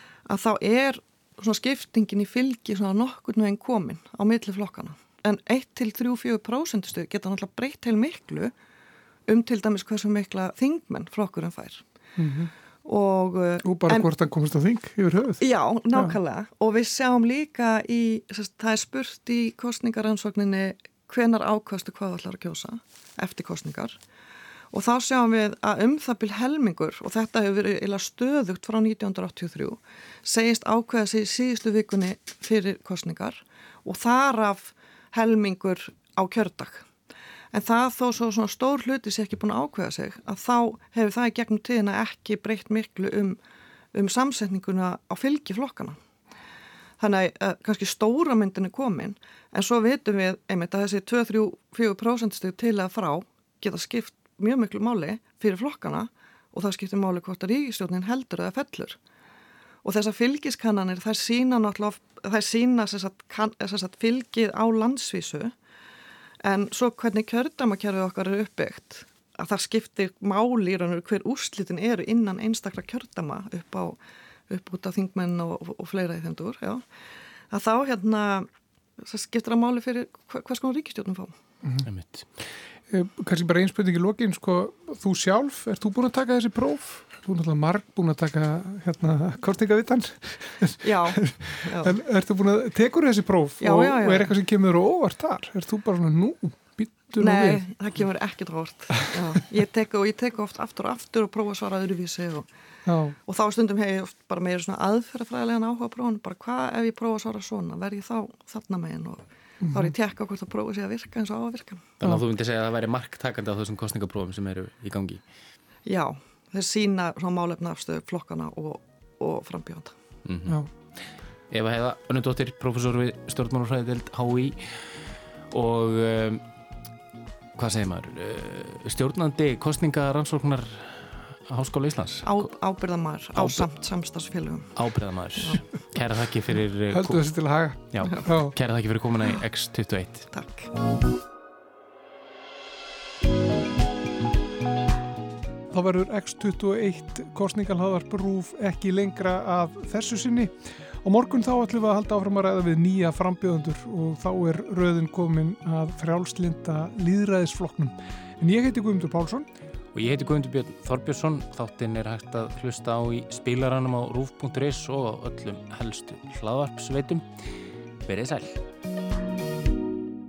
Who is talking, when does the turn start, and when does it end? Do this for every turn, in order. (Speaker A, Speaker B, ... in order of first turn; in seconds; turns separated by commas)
Speaker A: 0.3-8.5, Speaker A: 9.3-11.8, Speaker B: 12.2-12.5, Speaker A: 12.8-14.1, Speaker B: 13.6-15.4, Speaker A: 15.4-24.0, Speaker A: 24.7-36.9, Speaker A: 37.5-43.4, Speaker A: 43.9-46.0, Speaker A: 47.0-59.0, Speaker A: 59.8-65.5, Speaker A: 66.4-74.0, Speaker A: 74.5-76.8, Speaker A: 77.5-78.5, Speaker A: 79.0-81.3, Speaker C: 81.8-82.2, Speaker B: 82.9-97.6, Speaker A: 90.8-92.0, Speaker A: 93.6-94.3, Speaker A: 97.2-102.5, Speaker B: 102.9-103.2, Speaker A: 103.3-111.9, Speaker B: 109.6-109.9, Speaker C: 112.0-115.2, Speaker A: 115.8-120.0, Speaker C: 120.2-120.6, Speaker C: 121.5-126.4, Speaker C: 127.6-132.5, Speaker A: 132.2-134.8, Speaker C: 133.3-133.7, Speaker C: 134.8-140.3, Speaker B: 136.9-138.5, Speaker A: 140.3-140.7, Speaker B: 145.7-159.5, Speaker C: 159.9-167.3, Speaker C: 168.1-168.6